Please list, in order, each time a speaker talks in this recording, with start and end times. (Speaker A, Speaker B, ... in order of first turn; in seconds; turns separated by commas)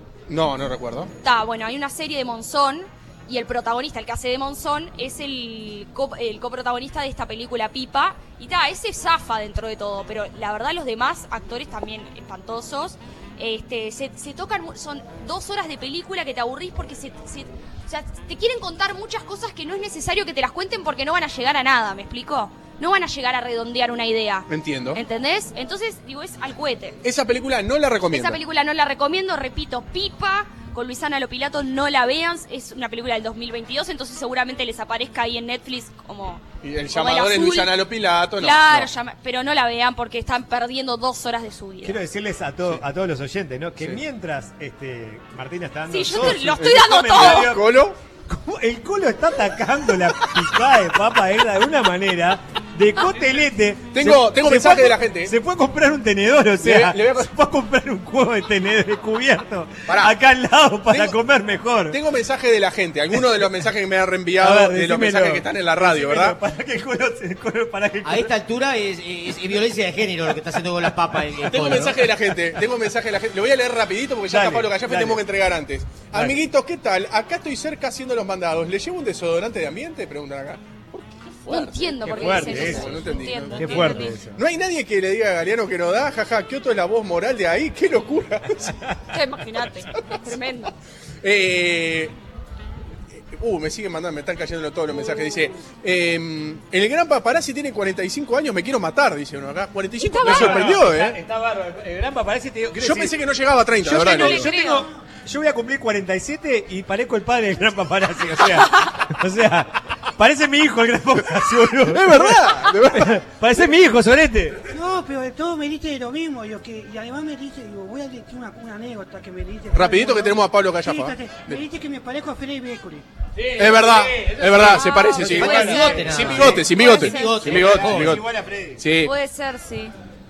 Speaker A: 0.3-1.1, Speaker B: 1.2-27.0, Speaker A: 24.5-25.0, Speaker A: 27.0-28.4, Speaker B: 28.1-37.8, Speaker A: 36.6-38.9, Speaker B: 38.3-42.0, Speaker C: 41.8-47.7, Speaker B: 45.9-47.6, Speaker A: 46.1-48.0, Speaker C: 48.3-62.0, Speaker A: 53.9-55.4, Speaker A: 56.6-57.3, Speaker A: 59.9-60.1, Speaker A: 60.9-61.2, Speaker A: 61.9-66.4, Speaker C: 64.4-68.3, Speaker D: 68.0-72.1, Speaker A: 71.4-88.8, Speaker C: 74.3-75.2, Speaker C: 76.1-76.4, Speaker B: 81.5-84.1, Speaker C: 82.0-84.4, Speaker B: 89.1-90.7, Speaker A: 91.2-92.1, Speaker A: 93.1-101.2, Speaker B: 100.0-100.8, Speaker C: 100.2-103.2, Speaker A: 102.8-104.5, Speaker C: 103.8-114.6, Speaker B: 103.8-104.9, Speaker A: 111.9-113.6, Speaker E: 114.7-123.0, Speaker A: 119.7-121.6, Speaker C: 123.4-126.7, Speaker A: 123.5-128.2, Speaker B: 124.5-127.4, Speaker D: 125.2-128.2, Speaker C: 127.2-128.8, Speaker A: 128.8-129.1, Speaker B: 129.0-129.9